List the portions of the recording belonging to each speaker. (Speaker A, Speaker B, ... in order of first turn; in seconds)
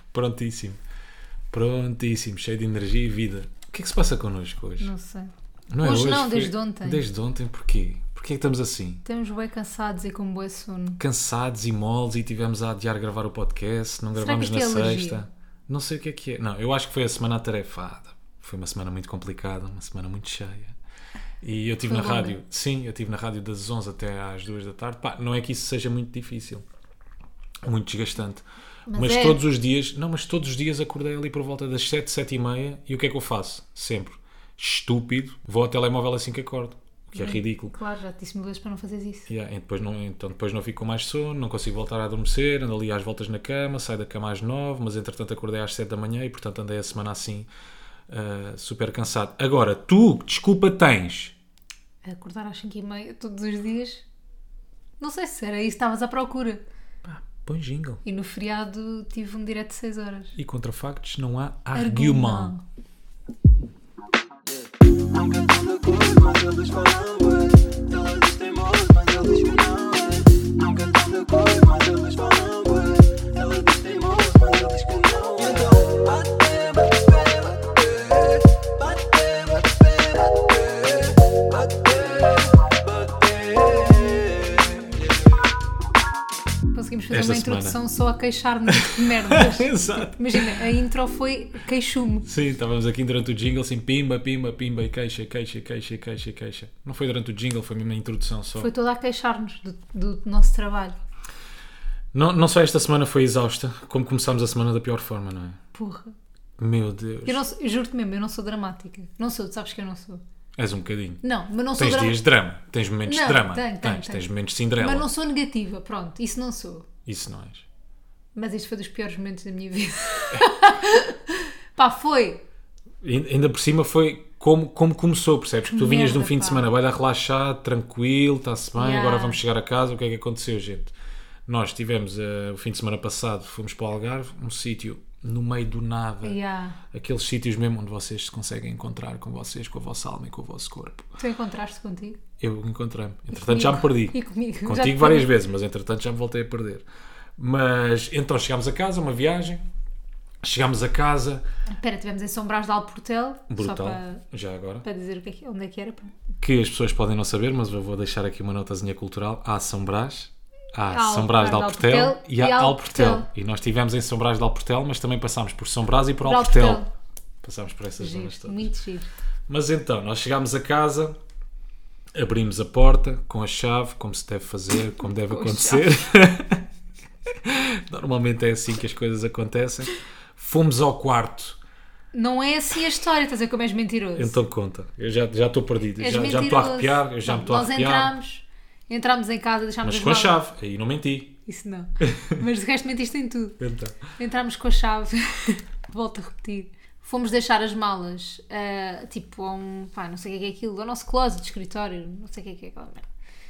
Speaker A: 0.1-0.8, 1.5-4.9, 5.7-9.0, 11.0-20.8, 21.4-26.6, 27.6-28.4, 28.9-37.7, 39.3-47.5, 48.1-51.3, 57.0-58.0, 60.4-62.5, 87.1-87.8, 88.7-90.7, 92.3-98.7, 102.1-105.6, 106.6-107.4, 110.6-111.2, 111.8-115.1, 117.1-117.7, 123.0-130.9, 131.5-136.4, 136.9-141.1, 142.4-146.8, 147.4-149.6, 150.4-151.4, 153.5-154.8, 156.4-166.8, 167.4-168.7, 169.5-171.2, 172.1-176.6, 177.3-181.6, 184.2-188.1, 189.8-191.3, 192.0-192.4, 193.6-194.0
Speaker B: 4.8-7.0, 9.0-11.0, 14.1-15.2, 21.8-22.3, 28.9-29.4, 37.1-39.3, 52.0-54.0, 55.0-56.6, 58.0-60.4, 61.7-62.6, 86.7-92.3, 98.6-101.0, 105.7-106.2, 107.3-110.2, 111.2-112.2, 113.1-114.3, 114.8-116.9, 118.3-122.4, 125.7-126.6, 128.8-129.4, 136.2-136.8, 141.2-142.2, 143.3-145.3, 151.7-154.2, 154.8-156.1, 160.9-163.3, 166.2-166.9, 168.0-169.1, 175.2-175.9, 182.1-184.4, 186.0-190.3, 191.4-193.6, 194.2-203.1
Speaker C: 64.9-85.1